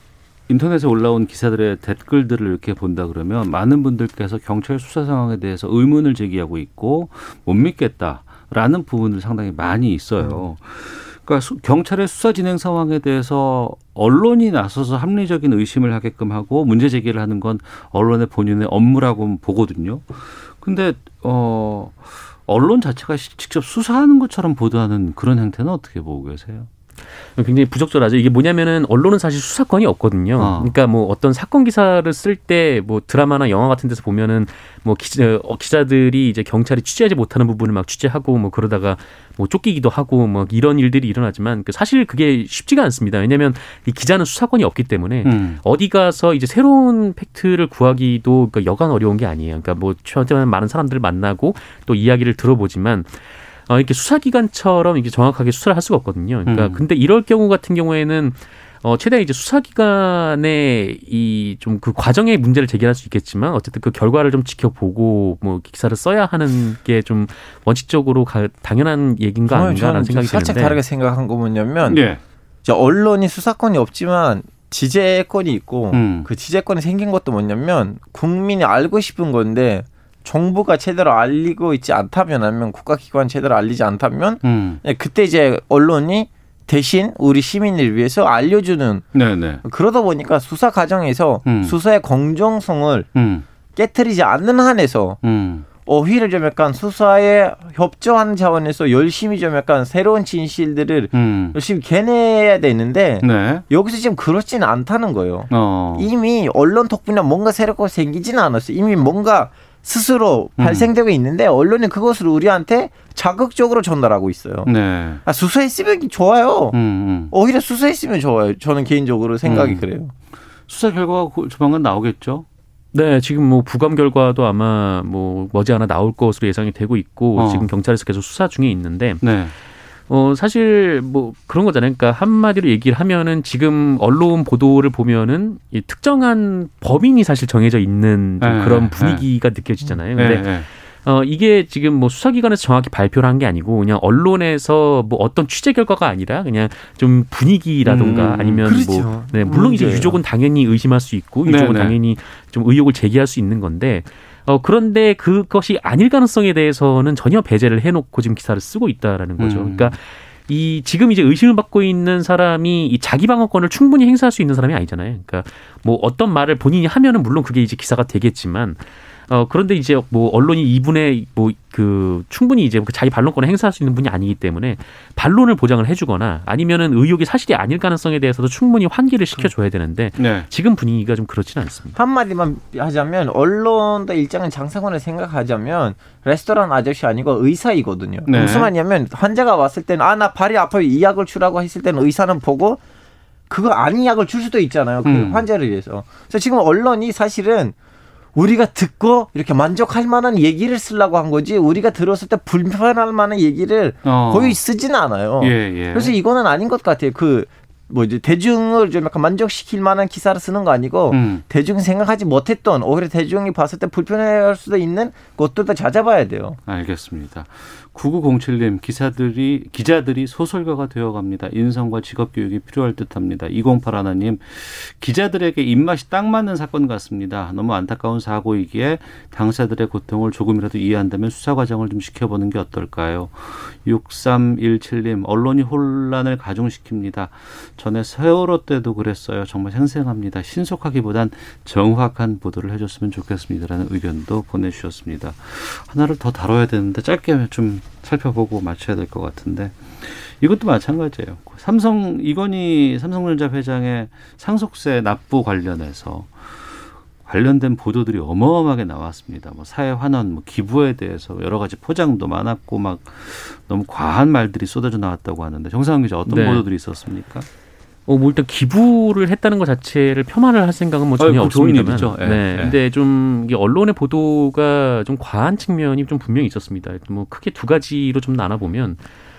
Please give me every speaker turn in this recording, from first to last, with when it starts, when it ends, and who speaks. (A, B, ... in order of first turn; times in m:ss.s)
0:00.5-0:26.7 A
0:27.4-1:10.8 B
0:30.4-0:30.7 A
0:45.2-0:45.6 A
0:56.4-0:56.8 A
1:09.5-1:12.0 C
1:11.9-1:12.2 A
1:12.6-1:29.1 C
1:15.9-1:16.3 A
1:24.4-1:24.8 A
1:29.1-1:29.6 A
1:29.6-1:33.1 C
1:31.4-1:31.8 A
1:33.2-1:33.4 A
1:33.8-1:35.2 C
1:35.2-1:35.6 A
1:35.8-1:54.7 C
1:41.1-1:41.6 A
1:43.2-1:43.6 A
1:45.5-1:46.1 A
1:50.6-1:50.9 A
1:54.7-1:55.2 A
1:55.2-1:56.8 C
1:56.7-1:57.3 A
1:57.3-2:00.1 C
1:59.4-1:59.8 A
2:00.7-2:02.4 A
2:02.9-2:09.2 B
2:07.4-2:07.7 A
2:09.2-2:09.5 A
2:10.1-3:02.0 B
2:18.4-2:19.2 A
2:20.2-2:20.6 A
2:27.8-2:28.6 A
2:28.6-2:30.2 C
2:31.4-2:32.0 A
2:39.4-2:39.9 A
3:00.2-3:00.5 A
3:01.9-3:12.8 C
3:08.3-3:08.7 A
3:13.5-3:17.7 C
3:15.0-3:15.4 A
3:18.3-3:36.6 C
3:24.0-3:24.6 A
3:25.4-3:26.1 A
3:31.1-3:31.4 A
3:36.7-4:27.5 A
4:26.3-4:26.6 B
4:28.1-4:39.0 B
4:31.2-4:32.8 A